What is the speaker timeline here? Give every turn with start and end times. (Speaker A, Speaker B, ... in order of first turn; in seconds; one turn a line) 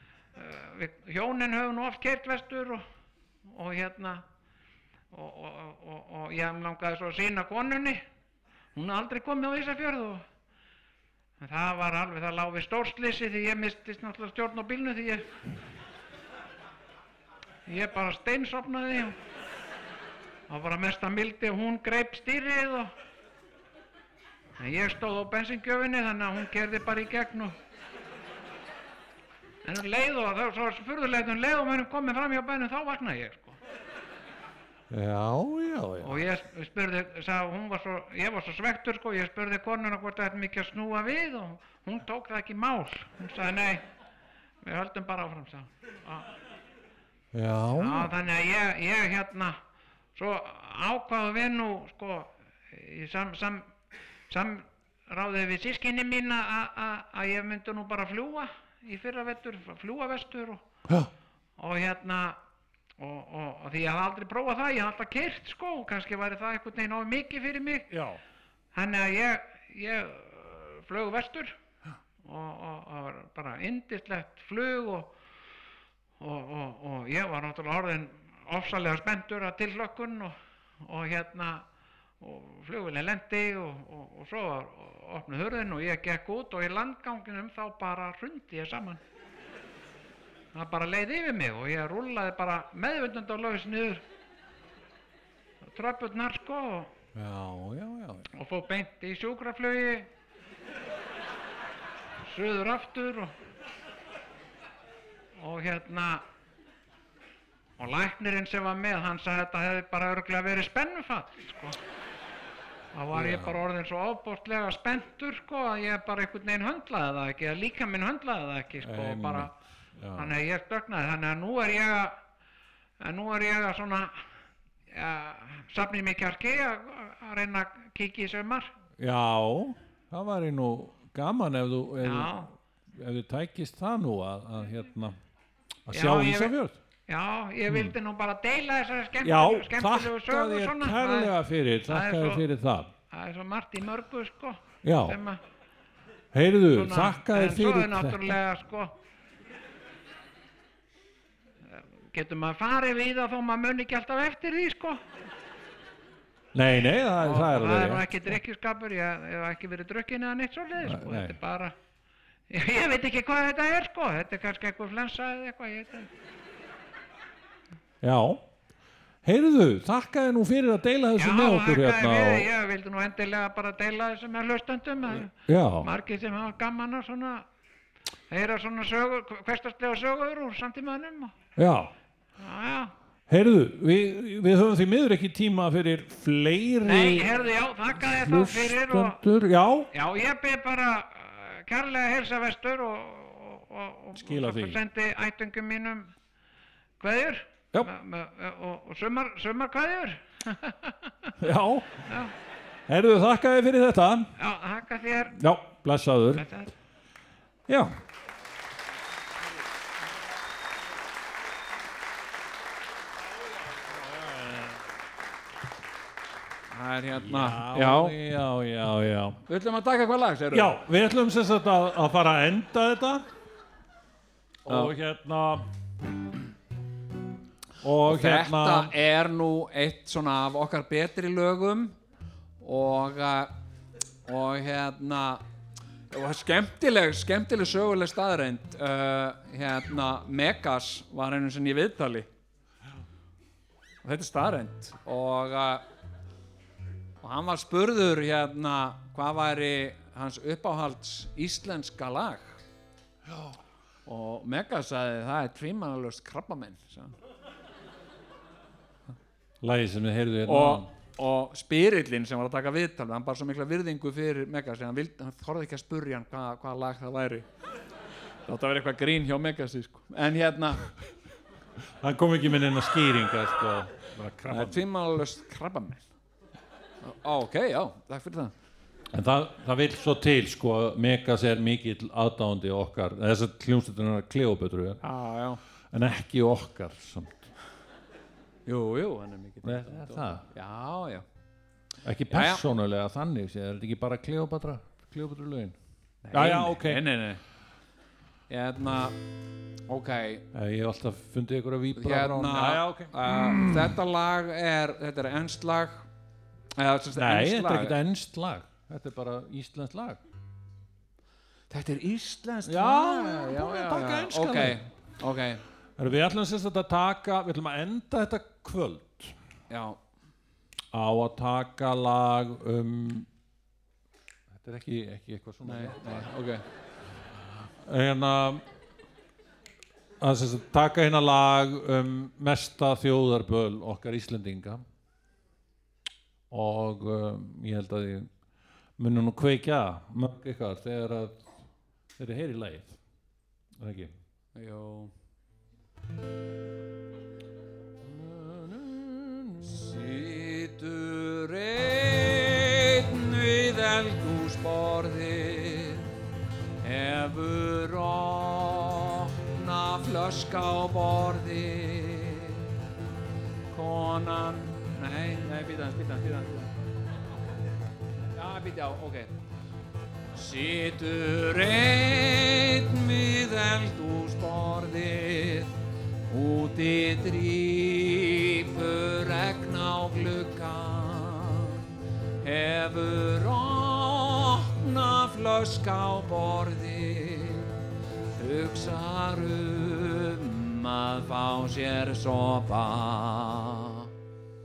Speaker A: 0.4-2.9
Speaker A: 3.5-4.2
Speaker A: 5.1-8.0
Speaker A: 8.8-10.2
Speaker A: 11.4-15.4
Speaker A: 17.7-19.2
Speaker A: 20.5-22.9
Speaker A: 24.6-27.6
Speaker A: 29.6-33.6
Speaker B: 34.9-36.3
Speaker A: 36.0-43.9
Speaker A: 44.6-46.4
Speaker B: 47.3-48.1
Speaker A: 47.8-49.6
Speaker A: 50.1-53.7
Speaker A: 54.3-60.6
Speaker A: 61.6-62.4
Speaker A: 63.0-67.9
Speaker B: 67.9-68.2
Speaker A: 68.7-71.6
Speaker A: 72.2-75.1
Speaker A: 76.2-81.7
Speaker A: 82.2-89.0
Speaker A: 90.5-94.0
Speaker A: 95.6-96.9
Speaker B: 97.1-98.3
Speaker A: 98.3-100.1
Speaker A: 102.2-103.3
Speaker A: 105.4-106.2
Speaker A: 107.8-111.8
Speaker A: 112.9-119.5
Speaker B: 113.1-113.6
Speaker B: 118.8-120.4
Speaker A: 120.2-122.2
Speaker A: 123.0-124.1
Speaker A: 124.9-128.7
Speaker B: 129.0-135.2
Speaker A: 132.0-132.5
Speaker B: 135.9-136.8
Speaker A: 135.9-136.5
Speaker A: 137.1-141.3
Speaker B: 137.7-138.0
Speaker B: 139.2-142.9
Speaker A: 141.9-142.4
Speaker A: 143.1-145.4
Speaker B: 144.8-145.2
Speaker B: 146.3-148.4
Speaker A: 146.7-148.9
Speaker A: 151.7-155.0
Speaker B: 156.5-158.4
Speaker A: 157.2-161.8
Speaker B: 160.8-161.4
Speaker A: 162.5-166.1
Speaker B: 168.0-168.4
Speaker B: 169.2-172.5
Speaker A: 171.2-177.5
Speaker B: 175.2-175.9
Speaker A: 178.3-181.3
Speaker B: 181.6-181.9
Speaker A: 182.4-182.9
Speaker B: 183.3-187.3
Speaker A: 186.8-189.2
Speaker B: 188.0-189.9
Speaker A: 189.9-196.1
Speaker B: 194.2-194.8
Speaker A: 197.0-201.3
Speaker B: 201.4-202.1
Speaker A: 202.1-202.3
Speaker B: 202.9-204.3
Speaker A: 204.4-205.4
Speaker B: 205.3-206.5
Speaker A: 206.3-206.7
Speaker B: 207.7-208.0
Speaker B: 213.7-214.9
Speaker C: 216.7-218.2
Speaker B: 217.1-219.4
Speaker C: 219.5-220.8
Speaker B: 220.5-223.3
Speaker B: 224.7-225.7
Speaker C: 224.7-224.9
Speaker B: 227.8-228.9
Speaker C: 228.0-232.0
Speaker C: 232.6-233.5
Speaker C: 234.3-235.4
Speaker C: 236.1-242.3
Speaker C: 244.0-245.8
Speaker C: 247.2-252.6
Speaker B: 253.3-253.6
Speaker C: 254.1-257.1
Speaker B: 259.6-260.9
Speaker C: 260.5-267.5
Speaker C: 268.5-270.9
Speaker B: 272.0-274.8
Speaker C: 274.5-276.1
Speaker C: 277.0-278.5
Speaker B: 279.1-285.0
Speaker C: 285.0-285.6
Speaker B: 285.9-287.5
Speaker C: 288.7-291.2
Speaker B: 289.6-290.5
Speaker B: 292.0-295.8
Speaker C: 292.3-292.6
Speaker C: 296.2-297.4
Speaker B: 296.3-297.0
Speaker C: 298.5-299.2
Speaker C: 299.9-300.4
Speaker B: 300.5-304.0
Speaker C: 302.0-306.1
Speaker C: 306.8-308.0
Speaker B: 307.1-310.2
Speaker C: 311.7-315.6
Speaker B: 312.6-314.8
Speaker B: 316.0-319.4
Speaker C: 319.7-320.0
Speaker B: 320.9-323.3
Speaker B: 324.5-326.3
Speaker C: 325.6-326.6
Speaker B: 327.8-328.6
Speaker B: 330.2-334.9
Speaker B: 336.5-338.3
Speaker B: 339.0-341.6
Speaker B: 342.2-343.0
Speaker B: 343.8-344.2
Speaker C: 344.6-345.1
Speaker B: 348.0-349.7
Speaker C: 349.6-356.1
Speaker C: 356.8-362.6
Speaker C: 363.7-366.7
Speaker C: 368.4-369.3
Speaker C: 370.3-375.7
Speaker C: 376.3-381.8
Speaker C: 382.4-387.7
Speaker C: 388.4-394.1